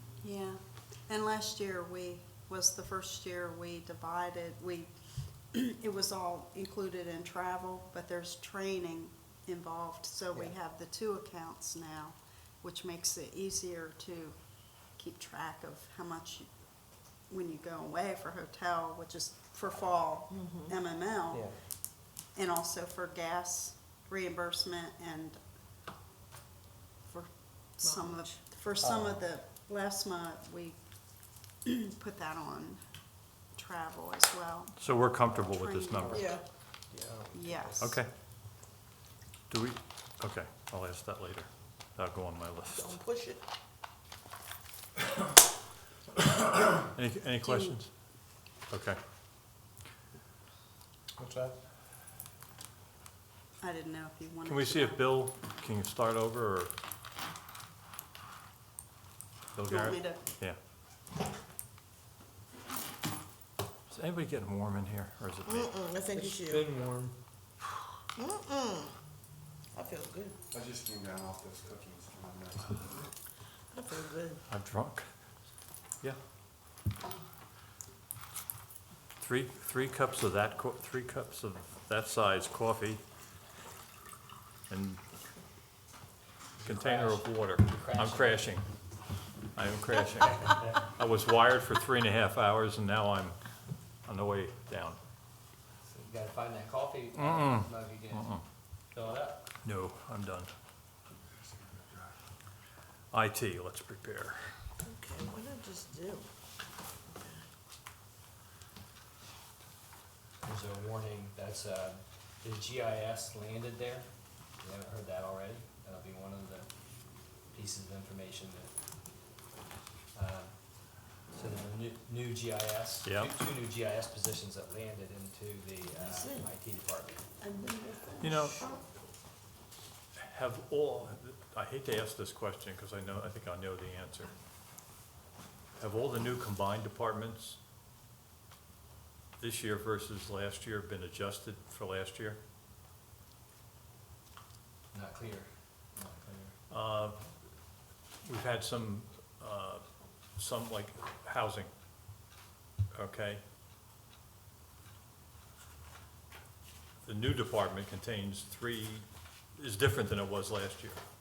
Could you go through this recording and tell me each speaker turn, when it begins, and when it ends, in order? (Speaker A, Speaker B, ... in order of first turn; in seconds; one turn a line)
Speaker A: 0.2-4.9
Speaker A: 5.5-14.4
Speaker A: 14.9-16.5
Speaker A: 17.3-21.5
Speaker B: 20.3-20.7
Speaker C: 21.3-21.6
Speaker A: 22.3-25.4
Speaker A: 27.1-30.8
Speaker B: 27.8-28.2
Speaker C: 28.8-29.2
Speaker A: 31.6-32.8
Speaker A: 33.5-34.8
Speaker D: 34.8-36.2
Speaker A: 35.5-36.4
Speaker C: 36.0-36.3
Speaker B: 36.1-36.4
Speaker C: 36.9-37.9
Speaker A: 37.3-38.0
Speaker D: 37.8-38.1
Speaker D: 39.5-43.0
Speaker B: 42.7-43.4
Speaker D: 46.9-47.9
Speaker A: 47.4-47.7
Speaker D: 48.7-49.0
Speaker C: 51.2-51.5
Speaker A: 53.6-55.2
Speaker D: 54.5-56.7
Speaker D: 59.5-60.6
Speaker A: 59.6-60.2
Speaker D: 63.9-65.7
Speaker B: 65.5-66.7
Speaker C: 66.1-67.1
Speaker B: 68.2-68.9
Speaker B: 69.7-70.3
Speaker E: 70.5-73.1
Speaker B: 73.7-74.4
Speaker D: 74.5-75.1
Speaker D: 79.2-83.0
Speaker D: 84.7-85.0
Speaker F: 86.6-88.5
Speaker D: 86.6-88.6
Speaker D: 89.5-93.4
Speaker F: 90.4-90.7
Speaker D: 94.1-95.0
Speaker F: 95.8-98.3
Speaker D: 97.2-98.4
Speaker F: 98.9-99.4
Speaker D: 99.6-100.5
Speaker E: 101.4-102.1
Speaker D: 103.1-104.6
Speaker B: 104.8-106.3
Speaker B: 107.2-107.5
Speaker F: 110.4-114.1
Speaker F: 114.6-116.7
Speaker F: 117.5-118.7
Speaker F: 120.1-120.5
Speaker F: 121.3-127.2
Speaker D: 123.0-123.3
Speaker B: 125.9-126.4
Speaker B: 127.4-128.8
Speaker D: 128.2-128.6
Speaker D: 130.2-134.3
Speaker D: 135.8-137.6
Speaker D: 139.4-142.4
Speaker F: 144.9-146.5
Speaker D: 146.7-147.2
Speaker D: 148.2-149.8
Speaker D: 150.4-151.7
Speaker D: 152.9-153.4
Speaker D: 157.0-161.0